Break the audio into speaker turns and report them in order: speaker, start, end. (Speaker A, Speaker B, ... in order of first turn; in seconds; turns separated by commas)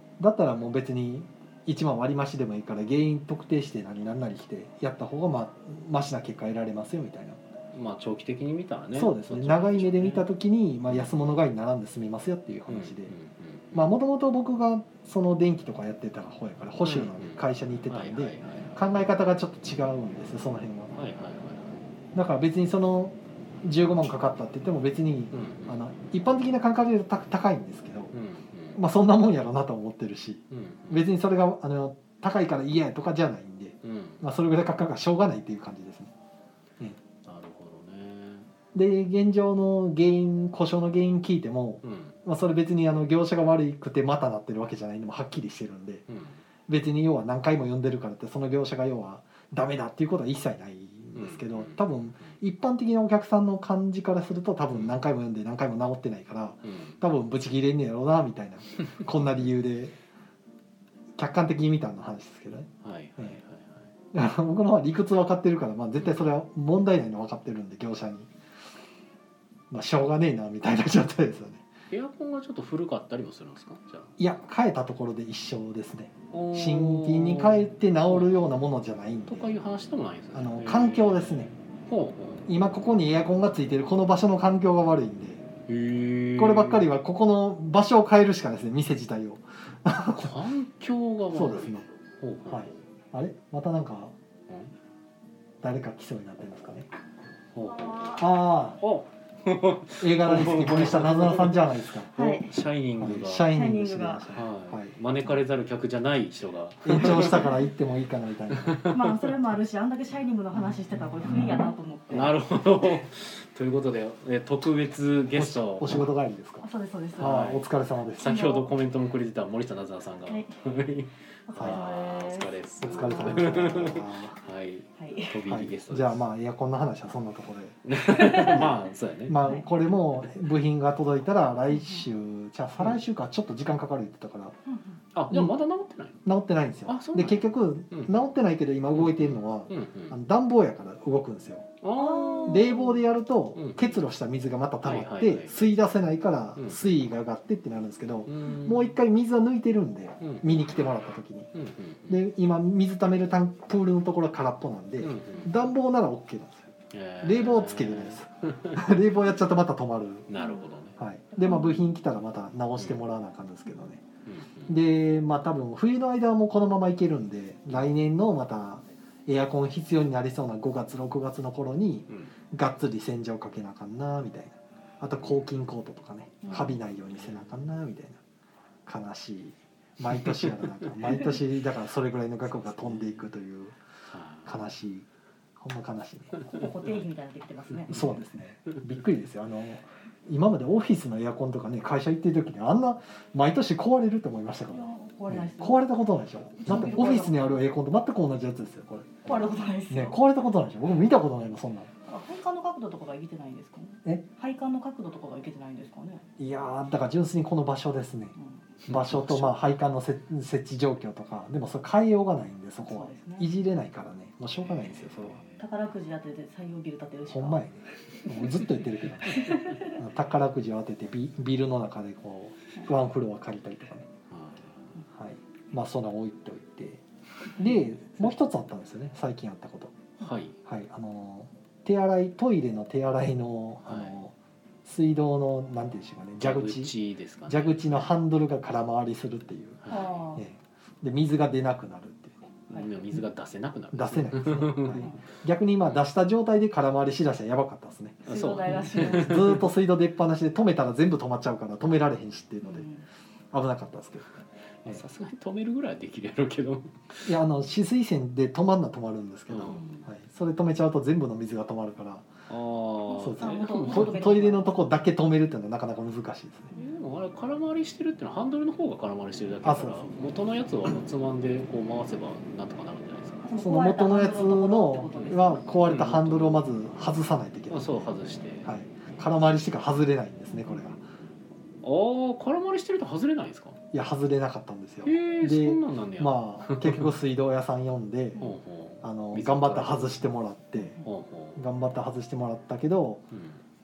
Speaker A: 0.2-7.4, Speaker B: 7.7-10.3, Speaker A: 8.9-13.1, Speaker B: 10.9-11.2, Speaker B: 12.7-13.9, Speaker A: 13.7-20.9, Speaker B: 16.8-18.8, Speaker B: 20.9-21.9, Speaker A: 22.1-28.1, Speaker B: 25.3-25.8, Speaker B: 28.1-28.8, Speaker A: 28.8-36.1, Speaker B: 30.5-31.1, Speaker B: 33.8-34.2, Speaker B: 37.2-38.5, Speaker A: 38.7-46.0, Speaker B: 41.8-42.2, Speaker B: 46.1-46.4, Speaker A: 46.7-59.9, Speaker B: 51.1-52.3, Speaker B: 56.6-57.0, Speaker B: 58.8-59.5, Speaker A: 61.2-63.4, Speaker B: 62.8-63.9, Speaker A: 64.1-68.3, Speaker B: 66.0-66.2, Speaker A: 69.7-71.7, Speaker B: 71.9-74.2, Speaker A: 74.2-79.5, Speaker B: 76.3-78.4, Speaker B: 79.3-82.5, Speaker A: 80.3-81.5, Speaker A: 82.5-85.4, Speaker B: 85.7-86.9, Speaker A: 86.4-90.4, Speaker B: 90.1-92.8, Speaker A: 91.3-91.9, Speaker A: 92.5-94.1, Speaker A: 95.6-96.9, Speaker B: 97.5-98.3, Speaker A: 98.2-98.8, Speaker B: 98.8-103.5, Speaker A: 100.0-102.2, Speaker C: 102.2-102.5, Speaker A: 103.0-104.9, Speaker C: 103.5-104.3, Speaker B: 104.3-107.5, Speaker A: 106.8-108.8, Speaker B: 108.5-109.2, Speaker C: 108.9-112.3, Speaker B: 112.1-116.1, Speaker A: 115.3-116.7, Speaker C: 116.6-117.5, Speaker A: 117.2-118.3, Speaker B: 117.2-117.7, Speaker B: 118.2-126.2, Speaker C: 118.2-118.7, Speaker C: 121.5-123.7, Speaker A: 121.5-121.8, Speaker A: 122.8-124.4, Speaker C: 125.0-125.4, Speaker A: 125.5-128.7, Speaker B: 127.8-129.4, Speaker C: 128.1-128.7, Speaker A: 129.3-134.6, Speaker C: 129.4-129.7, Speaker C: 131.7-132.1, Speaker C: 134.7-135.0, Speaker B: 135.1-136.2, Speaker A: 136.2-141.7, Speaker B: 136.9-138.3, Speaker B: 139.0-140.2, Speaker B: 141.8-142.8, Speaker C: 141.9-143.0, Speaker A: 142.4-151.5, Speaker B: 143.6-144.0, Speaker B: 144.8-145.7, Speaker B: 146.6-146.9, Speaker B: 148.3-148.9, Speaker B: 150.2-151.0, Speaker B: 151.5-152.2, Speaker A: 152.1-160.3, Speaker B: 155.0-155.5, Speaker B: 156.9-158.9, Speaker B: 160.3-161.0, Speaker C: 160.4-160.7, Speaker A: 161.0-164.0, Speaker C: 161.3-161.8, Speaker B: 164.2-164.8, Speaker A: 164.7-178.2, Speaker B: 175.2-175.5, Speaker C: 176.4-176.7, Speaker B: 176.4-177.5, Speaker A: 178.9-183.8, Speaker B: 180.1-180.6, Speaker B: 182.5-183.3, Speaker B: 184.1-184.6, Speaker A: 184.5-185.1, Speaker A: 185.6-186.4, Speaker C: 186.5-188.0, Speaker B: 187.9-188.8, Speaker A: 187.9-199.3, Speaker C: 194.7-195.9, Speaker C: 196.5-197.4, Speaker C: 199.2-200.2, Speaker A: 199.9-201.9, Speaker C: 202.1-206.2, Speaker A: 206.4-208.3, Speaker B: 208.8-209.6, Speaker A: 208.9-215.4, Speaker C: 212.9-213.5, Speaker B: 214.6-215.7, Speaker C: 215.6-217.6, Speaker A: 217.3-224.1, Speaker C: 219.2-220.0, Speaker B: 224.3-224.9, Speaker A: 225.1-227.0, Speaker A: 227.6-230.0, Speaker B: 230.2-230.6, Speaker A: 230.7-234.3, Speaker B: 233.8-234.2, Speaker A: 234.8-236.9, Speaker B: 236.4-238.1, Speaker A: 237.5-242.5, Speaker B: 239.8-240.2, Speaker C: 239.9-240.4, Speaker B: 242.7-245.1, Speaker A: 243.9-252.9, Speaker C: 244.9-245.2, Speaker C: 248.2-249.6, Speaker B: 248.3-249.6, Speaker C: 252.6-253.1, Speaker A: 253.5-255.0, Speaker B: 254.8-257.3, Speaker A: 257.2-262.3, Speaker B: 259.5-260.0, Speaker C: 259.7-260.0, Speaker B: 262.5-264.3, Speaker C: 263.1-264.7, Speaker A: 263.2-266.7, Speaker B: 266.7-273.4, Speaker A: 269.6-270.1, Speaker C: 273.4-275.6, Speaker A: 273.6-278.1, Speaker B: 275.1-276.7, Speaker B: 277.7-278.7, Speaker A: 278.6-281.0, Speaker B: 281.8-283.8, Speaker A: 283.9-288.4, Speaker B: 285.1-287.1, Speaker B: 288.4-290.3, Speaker A: 289.0-291.0, Speaker C: 290.8-291.1, Speaker B: 291.0-291.6, Speaker A: 291.6-293.2, Speaker B: 293.3-293.6